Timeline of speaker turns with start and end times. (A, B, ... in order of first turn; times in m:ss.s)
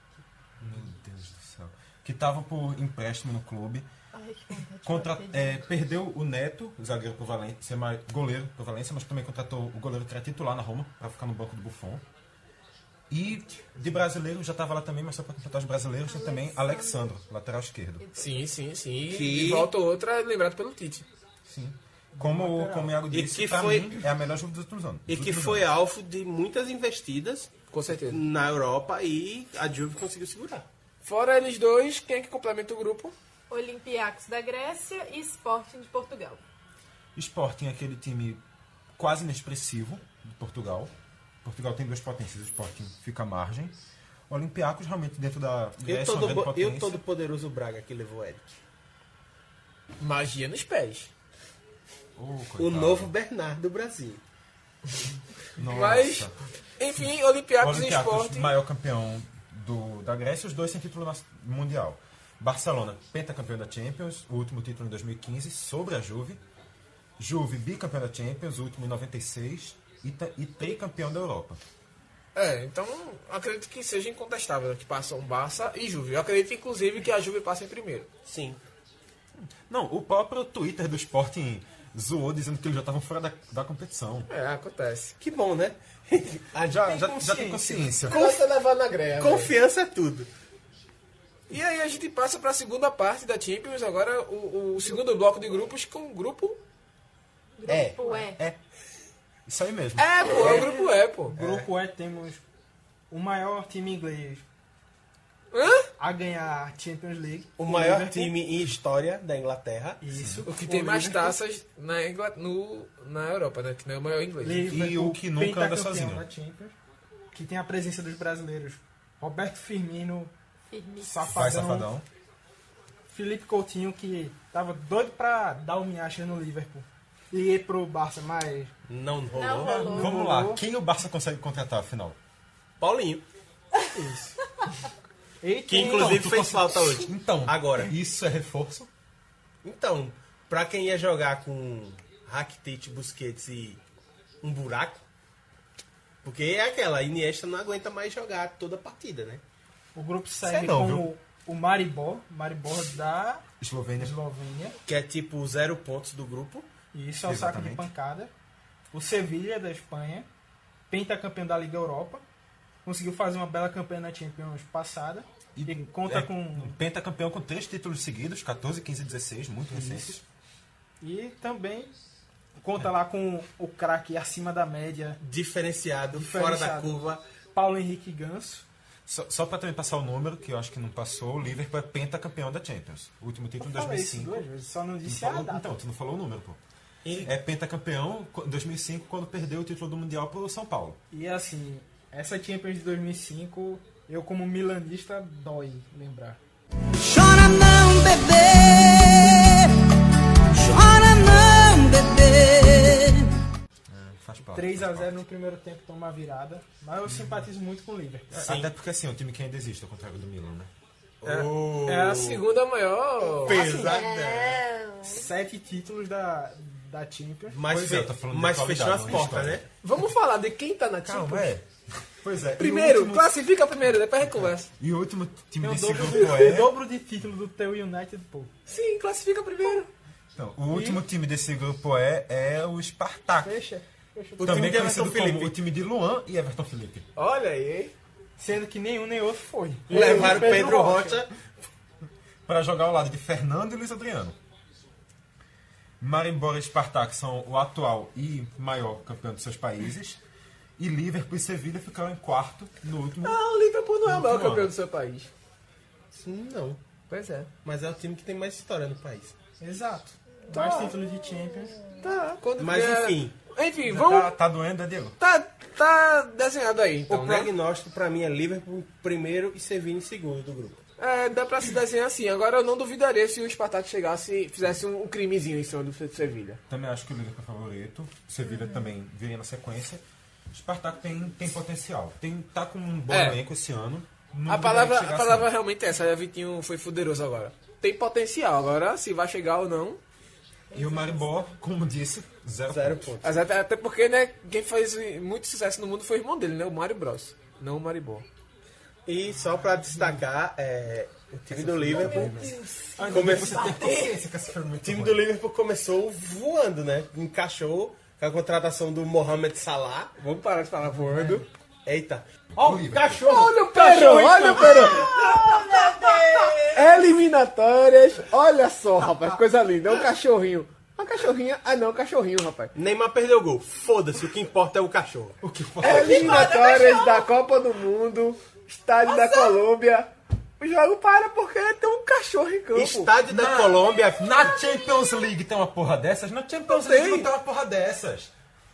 0:00.6-0:03.9 A
0:04.1-0:05.6 B
0:04.8-0:12.0 A
0:13.1-0:18.0 A
0:16.0-0:17.0 B
0:18.0-0:18.4 B
0:18.1-0:21.1 C
0:19.1-0:19.7 D
0:21.4-0:25.6 A
0:22.1-0:23.0 E
0:23.1-0:24.0 D
0:25.1-0:27.5 D
0:27.7-0:28.2 C
0:28.1-0:30.7 D
0:31.0-0:33.1 C
0:33.5-0:36.4 B
0:37.2-0:38.4 A
0:39.0-0:40.9 A
0:41.4-0:43.7 A
0:44.3-0:47.0 A
0:45.8-0:48.6 D
0:50.0-0:51.1 C
0:52.2-0:53.1 A
0:52.6-0:54.2 D
0:55.6-0:56.3 A
0:55.7-0:58.5 C
0:57.6-1:06.4 A
1:07.2-1:11.6 A
1:12.3-1:18.1 C
1:18.2-1:18.6 D
1:19.7-1:24.3 A
1:24.3-1:25.1 C
1:25.2-1:27.1 D
1:26.7-1:28.3 A
1:26.7-1:28.0 E
1:28.1-1:29.5 C
1:28.1-1:28.4 D
1:29.2-1:30.3 D
1:31.5-1:36.6 C
1:37.6-1:38.4 B
1:37.7-1:37.9 D
1:37.7-1:38.6 A
1:39.5-1:40.5 A
1:40.0-1:41.4 C
1:41.3-1:42.4 E
1:41.4-1:41.7 A
1:43.1-1:44.4 E
1:45.5-1:45.9 C
1:46.0-1:48.4 E
1:47.6-1:50.0 D
1:50.0-1:51.4 E
1:50.1-1:50.4 A
1:50.4-1:54.7 C
1:54.4-1:56.7 E
1:54.7-1:56.2 A
1:57.3-2:00.3 E
2:00.7-2:01.3 B
2:01.0-2:01.9 E
2:01.2-2:02.0 A
2:03.1-2:08.7 E
2:08.9-2:09.9 D
2:09.3-2:10.2 B
2:09.6-2:12.2 A
2:09.8-2:10.6 E
2:12.8-2:13.2 D
2:13.9-2:14.4 E
2:15.4-2:16.4 E
2:15.7-2:17.9 D
2:15.8-2:18.9 A
2:19.6-2:23.8 D
2:24.4-2:25.0 D
2:26.2-2:29.4 D
2:29.9-2:33.4 E
2:30.4-2:31.1 A
2:33.6-2:34.2 A
2:34.0-2:34.8 E
2:34.8-2:36.7 D
2:36.9-2:38.3 E
2:37.2-2:37.9 A
2:38.9-2:40.3 E
2:40.9-2:42.2 E
2:42.8-2:46.8 E
2:45.6-2:50.2 A
2:49.7-2:50.2 E
2:51.0-2:51.9 E
2:52.6-2:55.2 E
2:55.2-2:57.2 D
2:56.1-2:57.0 E
2:57.5-2:58.7 E
2:59.1-3:04.4 A
3:03.6-3:05.8 E
3:05.0-3:06.6 A
3:07.0-3:07.3 D
3:07.2-3:11.0 A
3:11.1-3:16.4 E
3:17.0-3:19.7 F
3:20.5-3:23.3 F
3:23.9-3:25.1 A
3:24.5-3:28.3 E
3:28.3-3:28.7 D
3:28.3-3:30.7 A
3:31.2-3:32.4 D
3:31.2-3:33.6 C
3:33.4-3:34.6 D
3:33.5-3:35.2 B
3:35.0-3:37.6 E
3:37.5-3:39.6 D
3:37.7-3:39.6 A
3:39.8-3:41.5 C
3:41.0-3:43.4 A
3:42.6-3:44.7 C
3:44.3-3:46.7 A
3:45.6-3:48.5 E
3:48.7-3:49.9 C
3:50.3-3:53.6 A
3:50.7-3:51.0 E
3:53.4-3:54.9 E
3:54.4-3:55.6 D
3:54.4-3:57.1 A
3:57.2-3:57.9 C
3:58.4-4:01.2 E
3:59.9-4:01.3 D
4:02.4-4:04.4 A
4:06.0-4:10.2 A
4:10.8-4:13.4 A
4:13.2-4:15.3 C
4:14.0-4:14.7 A
4:16.1-4:16.8 D
4:17.1-4:17.5 C
4:17.6-4:19.3 D
4:19.6-4:21.8 E
4:20.5-4:20.9 C
4:22.0-4:24.3 C
4:22.6-4:23.3 D
4:23.8-4:25.2 A
4:25.2-4:27.5 C
4:27.1-4:30.8 D
4:31.0-4:36.6 C
4:36.7-4:45.5 A
4:43.1-4:43.4 C
4:44.5-4:50.0 C
4:50.7-4:51.3 B
4:50.7-4:53.1 A
4:52.7-4:53.3 D
4:53.2-4:58.2 C
4:59.0-5:04.1 D
5:01.5-5:05.3 A
5:01.9-5:03.0 C
5:02.1-5:04.1 E
5:04.8-5:10.1 D
5:10.2-5:11.4 C
5:11.1-5:11.4 E
5:11.8-5:13.5 D
5:12.6-5:13.3 A
5:13.2-5:15.1 C
5:13.3-5:15.0 E
5:15.3-5:16.6 B
5:16.6-5:22.7 C
5:22.7-5:25.4 D
5:25.4-5:26.5 A
5:25.8-5:33.1 C
5:25.9-5:27.3 B
5:29.0-5:29.6 B
5:32.7-5:34.3 D
5:33.3-5:38.3 A
5:34.3-5:35.2 B
5:36.7-5:37.3 C